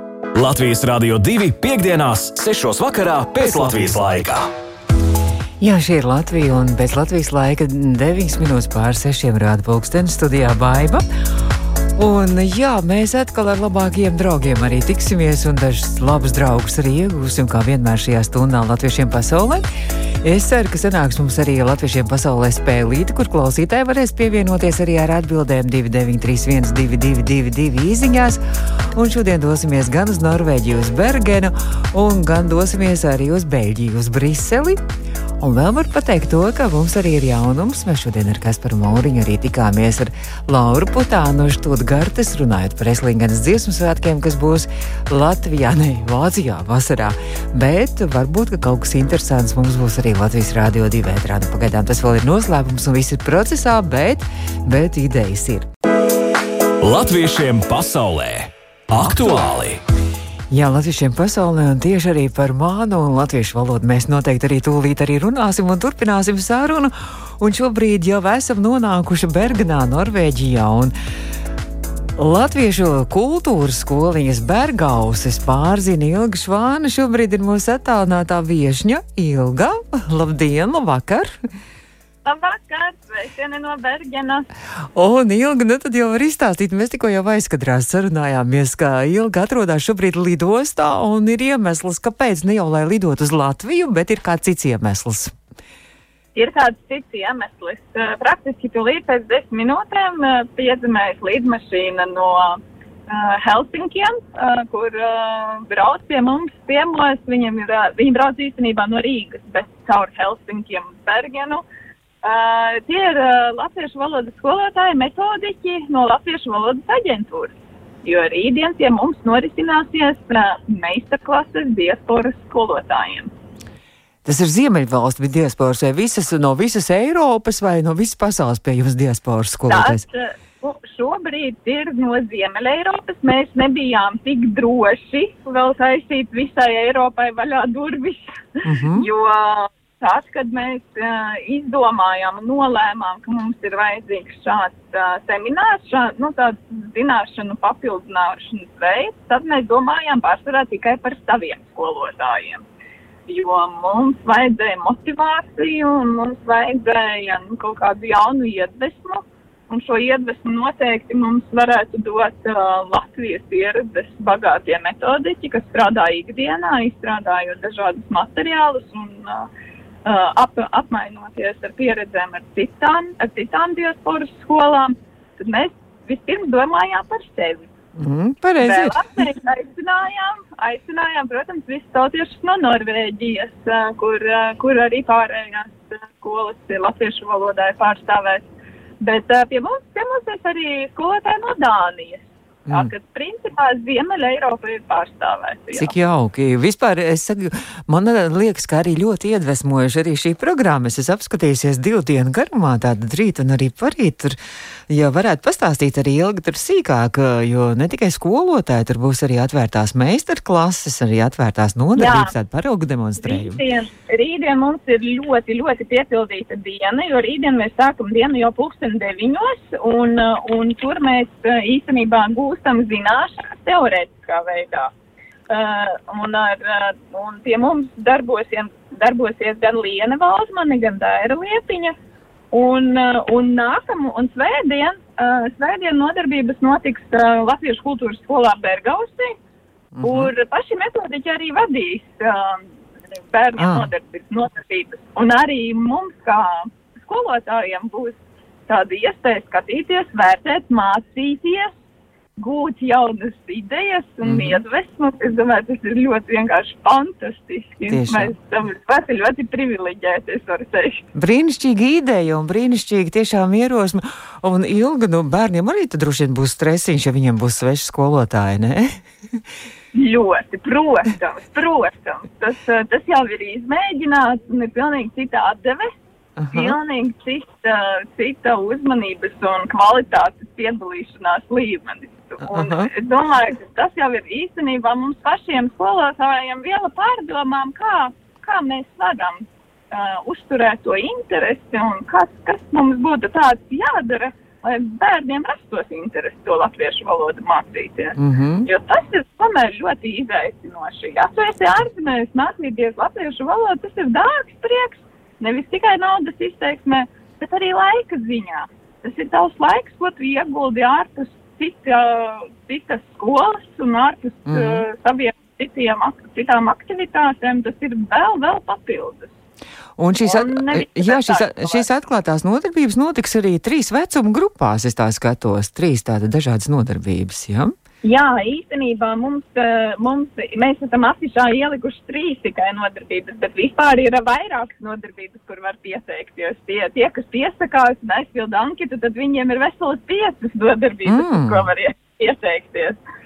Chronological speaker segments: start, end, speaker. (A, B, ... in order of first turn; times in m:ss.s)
0:00.3-0:04.5 A
0:05.6-0:11.0 B
0:12.0-0:19.6 B
0:20.2-0:28.4 B
0:28.9-0:34.8 B
0:35.4-0:55.7 B
0:56.8-0:59.8 A
0:59.0-0:59.4 B
1:00.5-1:10.9 B
1:12.2-1:21.4 B
1:22.2-1:24.5 C
1:25.0-1:35.3 B
1:36.4-1:51.6 C
1:52.2-2:03.3 C
2:04.2-2:10.0 B
2:09.7-2:32.6 C
2:18.6-2:19.1 B
2:33.3-2:49.5 C
2:50.0-2:57.7 C
2:58.0-2:59.0 B
2:58.6-3:08.4 C
3:09.0-3:15.9 C
3:12.7-3:12.9 B
3:15.7-3:24.4 B
3:24.9-3:33.6 B
3:32.0-3:32.3 C
3:33.2-3:44.9 C
3:45.5-3:52.0 C
3:52.5-3:59.4 C
4:00.0-4:00.3 B
4:00.0-4:02.6 C
4:03.3-4:08.2 C
4:03.6-4:03.9 B
4:08.7-4:11.7 C
4:12.4-4:21.1 C
4:14.2-4:14.6 B
4:17.9-4:18.3 B
4:21.2-4:29.4 B
4:29.9-4:36.0 C
4:36.4-4:36.8 B
4:36.5-5:19.3 C
4:42.4-4:42.9 B
4:58.2-4:58.7 B
5:14.5-5:14.8 B
5:20.0-5:27.7 B
5:20.2-5:21.9 C
5:28.0-5:43.0 C
5:41.1-5:41.7 B